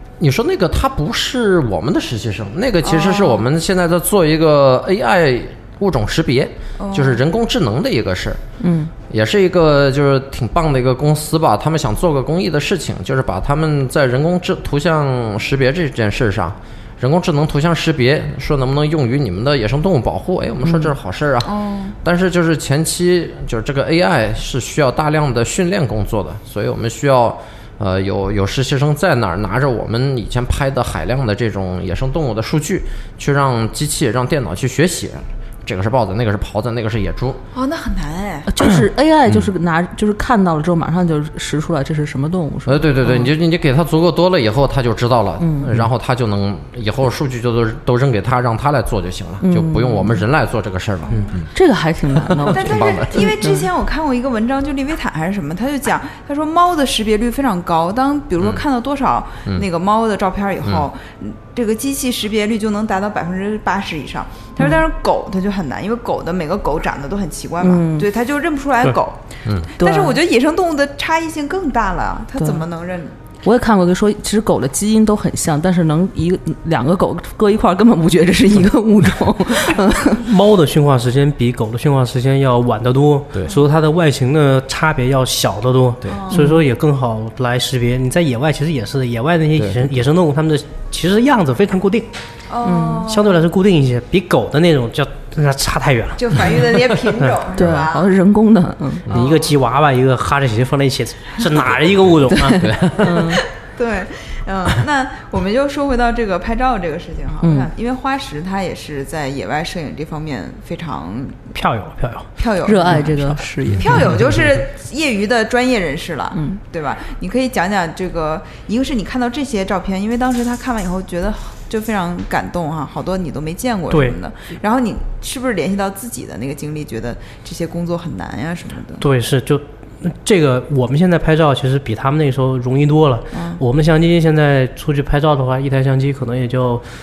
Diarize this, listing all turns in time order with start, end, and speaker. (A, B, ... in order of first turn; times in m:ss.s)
0:00.2-0:08.4 A
0:02.8-0:03.4 B
0:06.8-0:07.2 B
0:08.6-0:08.9 C
0:09.1-0:37.4 A
0:20.6-0:20.9 C
0:21.4-0:22.0 B
0:37.5-0:38.5 B
0:38.5-0:43.3 C
0:42.7-0:51.5 A
0:45.4-0:45.7 C
0:49.4-0:50.2 C
0:51.1-0:51.4 B
0:51.5-0:53.7 C
0:52.2-0:53.4 A
0:52.5-1:13.2 B
0:58.4-0:58.6 A
1:07.6-1:08.1 C
1:09.8-1:10.2 C
1:12.4-1:12.6 C
1:13.4-1:20.2 C
1:20.2-1:32.1 D
1:26.1-1:26.5 B
1:26.3-1:26.6 C
1:29.6-1:29.8 A
1:32.5-1:33.4 B
1:32.6-1:33.1 C
1:33.1-1:36.7 D
1:36.2-1:38.1 B
1:37.6-1:39.1 C
1:39.1-1:42.6 D
1:39.1-1:39.5 B
1:42.3-1:43.4 C
1:42.6-1:43.3 A
1:43.7-1:51.5 B
1:47.4-1:47.7 C
1:51.5-1:52.3 D
1:52.4-2:09.1 B
1:52.6-1:54.0 C
1:56.3-1:56.6 C
2:03.9-2:04.2 D
2:09.0-2:16.8 D
2:13.3-2:13.6 B